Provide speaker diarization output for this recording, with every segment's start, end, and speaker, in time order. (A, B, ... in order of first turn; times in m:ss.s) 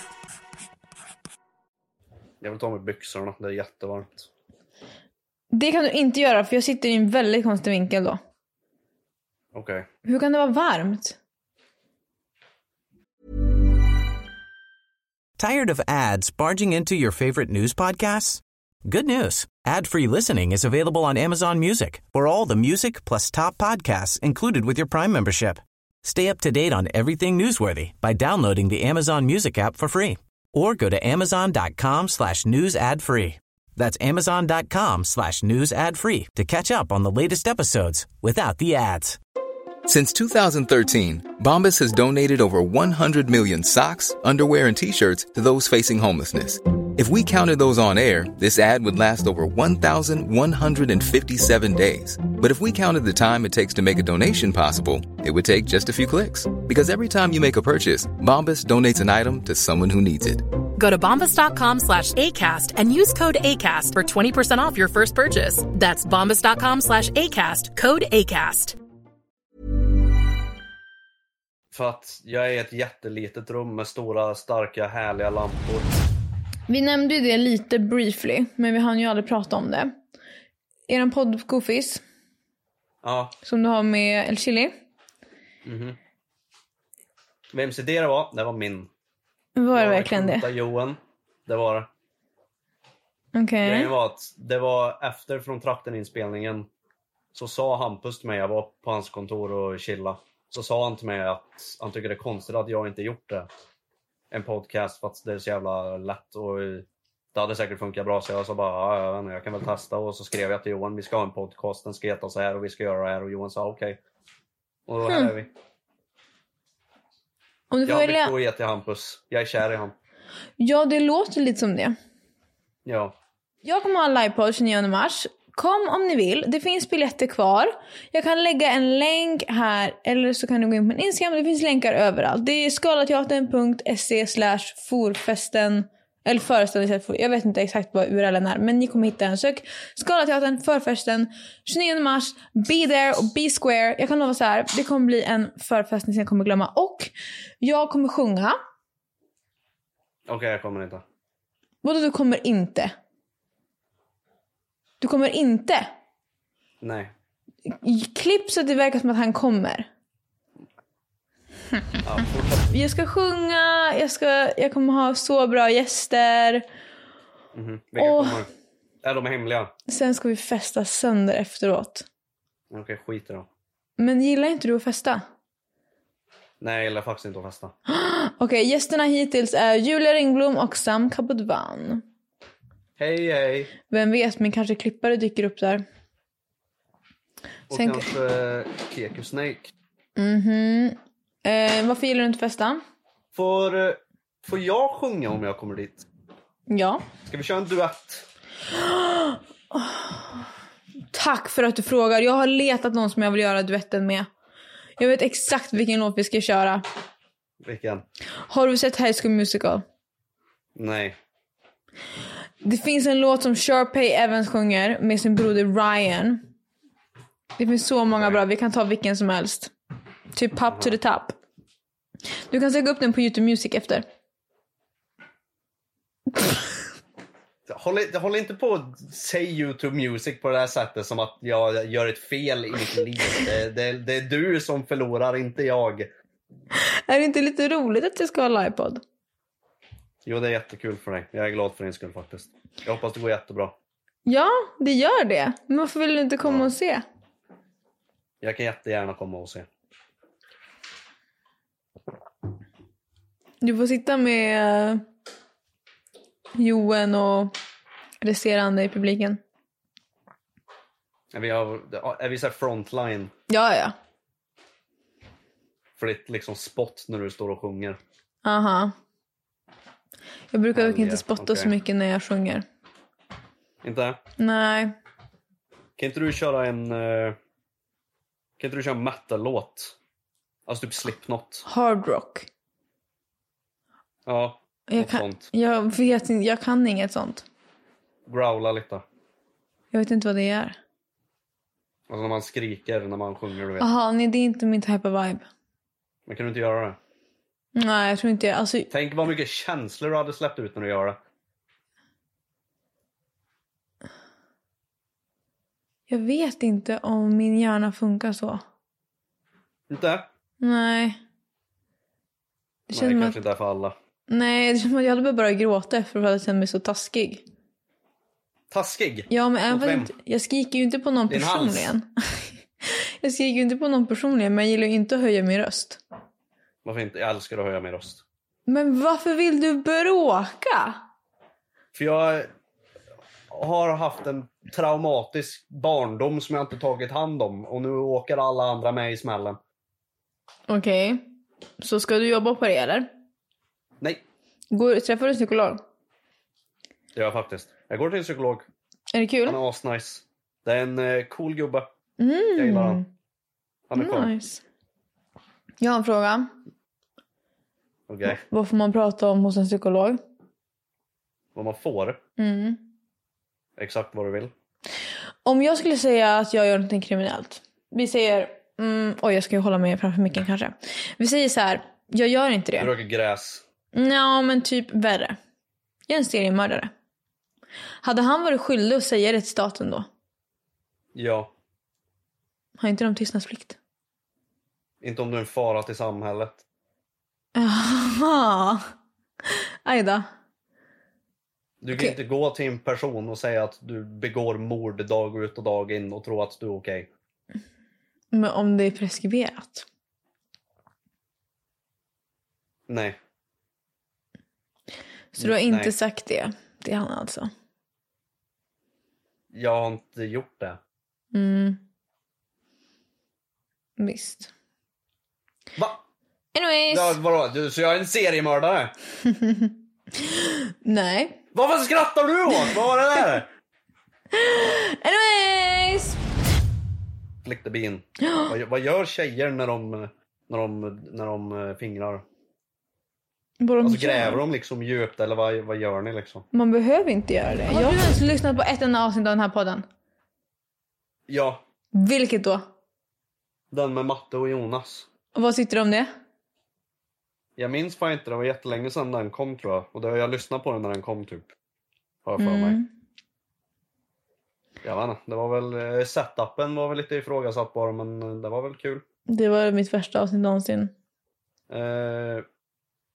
0:02.4-0:04.3 A
0:05.5-0:08.2 B
0:09.5-0:09.9 A
0:10.0-0:11.2 B
0:15.4-0:39.2 C
0:39.8-1:00.5 D
1:00.7-1:08.8 E
1:11.7-1:16.0 A
1:16.7-1:19.9 B
1:20.9-1:22.0 B
1:23.0-1:23.3 A
1:23.4-1:24.7 B
1:25.6-1:26.0 A
1:27.5-1:28.9 A
1:29.6-1:30.5 B
1:29.7-1:31.9 A
1:33.3-1:33.9 B
1:33.6-1:36.7 A
1:37.3-1:43.5 A
1:44.3-1:54.0 A
1:54.9-1:55.5 A
1:55.0-1:55.3 B
1:57.7-1:58.4 B
1:57.8-1:59.9 A
2:00.6-2:02.0 B
2:02.8-2:03.2 A
2:03.6-2:28.6 B
2:30.3-2:31.0 A
2:31.8-2:32.9 B
2:35.0-2:35.9 B
2:36.8-2:37.1 A
2:37.7-2:39.9 B
2:42.0-2:42.7 A
2:42.7-2:46.6 B
2:47.5-2:48.5 A
2:48.0-2:48.4 B
2:49.0-2:49.7 A
2:49.9-2:52.0 B
2:52.7-2:53.5 A
2:54.0-2:55.2 B
2:56.6-2:57.7 A
2:57.9-3:02.0 B
3:03.0-3:03.7 A
3:03.9-3:05.8 B
3:07.7-3:09.7 A
3:07.7-3:08.1 B
3:10.2-3:12.8 B
3:13.3-3:16.0 A
3:16.7-3:17.0 B
3:17.3-3:18.3 A
3:18.7-3:20.4 B
3:21.1-3:24.3 B
3:25.0-3:26.8 B
3:27.6-3:28.0 A
3:28.5-3:29.8 B
3:30.7-3:31.2 A
3:32.6-3:36.4 B
3:37.6-3:39.7 B
3:38.1-3:38.4 A
3:40.3-3:41.4 B
3:40.7-3:41.0 A
3:42.5-3:44.0 B
3:47.7-3:56.1 A
3:56.7-3:59.0 B
4:00.2-4:03.8 A
4:04.2-4:07.0 B
4:06.4-4:06.7 A
4:08.4-4:09.7 A
4:13.6-4:15.0 B
4:16.5-4:17.5 B
4:18.2-4:19.4 B
4:21.3-4:23.3 A
4:23.5-4:23.9 B
4:26.0-4:28.0 A
4:28.4-4:28.9 B
4:30.5-4:32.6 B
4:30.7-4:31.7 A
4:33.8-4:34.2 A
4:34.4-4:35.0 B
4:36.0-4:37.4 A
4:38.6-4:40.0 A
4:40.6-4:41.6 A
4:41.6-4:42.5 B
4:44.2-4:45.5 A
4:44.9-4:47.4 B
4:48.2-4:49.0 A
4:49.9-4:50.8 B
4:52.1-4:53.9 A
4:53.8-4:55.4 B
4:56.2-4:57.0 A
4:57.7-4:58.9 B
4:58.9-5:01.2 A
5:06.1-5:08.6 B
5:09.9-5:10.3 A
5:10.6-5:11.2 B
5:12.9-5:13.4 B
5:12.9-5:13.9 A
5:14.3-5:17.4 B
5:18.7-5:20.1 A
5:19.3-5:26.0 B
5:21.3-5:21.9 A
5:26.8-5:28.2 A
5:28.7-5:31.0 B
5:31.9-5:32.5 A
5:33.5-5:39.6 A
5:40.7-5:41.2 B
5:41.8-5:43.1 B
5:44.7-5:45.8 B
5:47.1-5:48.7 A
5:49.1-5:49.6 B
5:49.4-5:51.9 A
5:52.2-5:53.1 B
5:52.6-5:53.0 A
5:53.9-5:54.3 A
5:53.9-5:54.6 B
5:55.8-5:56.5 B
5:58.1-5:58.4 A
5:58.2-6:00.2 B
6:01.5-6:02.2 A
6:02.4-6:02.8 B
6:03.8-6:04.5 A
6:05.4-6:12.9 B
6:12.8-6:13.6 A
6:13.9-6:15.4 B
6:16.1-6:16.9 B
6:18.0-6:20.1 B
6:21.1-6:21.5 A
6:22.8-6:23.8 B
6:25.0-6:26.6 A
6:27.5-6:28.8 B
6:29.5-6:30.2 B
6:31.8-6:37.1 A
6:38.3-6:39.8 B
6:42.9-6:43.2 A
6:45.3-6:47.5 B
6:45.4-6:45.9 A
6:49.5-6:50.8 A
6:51.3-6:51.8 B
6:54.0-6:54.5 B
6:55.8-6:56.0 A
6:56.5-6:57.2 B
6:56.9-6:58.9 A
6:59.2-7:01.4 B
7:01.5-7:03.5 A
7:04.3-7:06.2 B
7:07.4-7:12.2 A
7:08.2-7:08.5 B
7:13.6-7:14.4 B
7:13.8-7:16.4 A
7:16.5-7:19.8 B
7:17.6-7:18.2 A
7:21.3-7:21.6 A
7:21.9-7:22.6 B
7:23.7-7:25.1 A
7:25.3-7:26.1 B
7:27.6-7:31.5 A
7:32.2-7:32.8 A
7:32.4-7:32.9 B
7:34.8-7:39.0 A
7:39.3-7:40.9 B
7:41.7-7:42.4 A